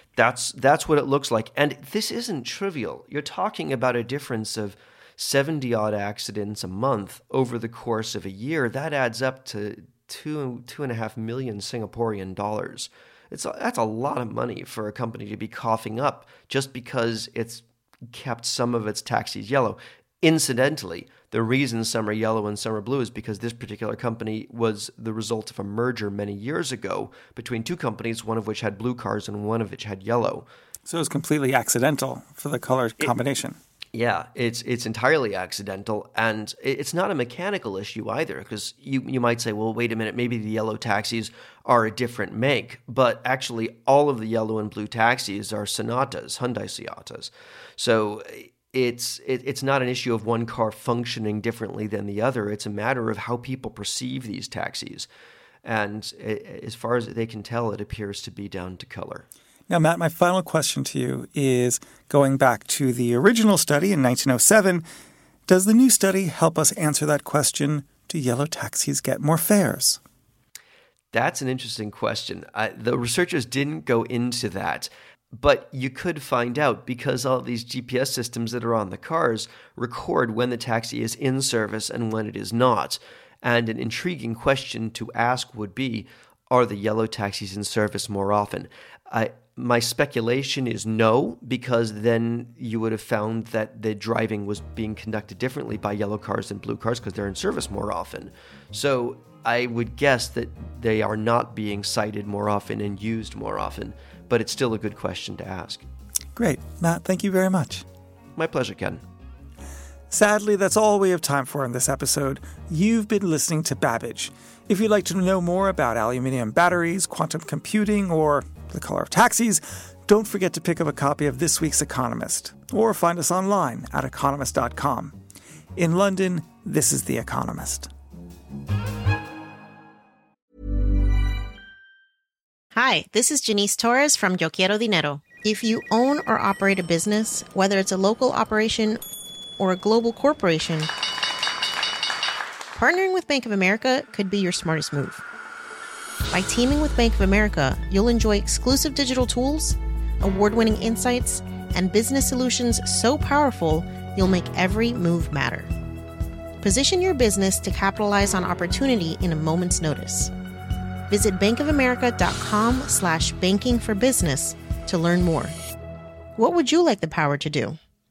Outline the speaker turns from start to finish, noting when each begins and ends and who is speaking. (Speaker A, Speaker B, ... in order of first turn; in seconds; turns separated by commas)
Speaker A: 0.2-30.5, Speaker B: 30.9-33.6, Speaker A: 33.9-55.1, Speaker A: 55.6-59.2, Speaker B: 59.7-64.9, Speaker B: 65.5-70.0, Speaker A: 71.1-105.9, Speaker B: 106.4-107.8, Speaker A: 108.4-109.0, Speaker B: 110.1-125.2, Speaker B: 125.8-127.9, Speaker C: 132.7-139.0, Speaker C: 139.6-140.9, Speaker C: 142.8-145.2, Speaker C: 146.3-155.7, Speaker C: 156.6-160.3, Speaker C: 161.1-165.6, Speaker C: 166.4-167.8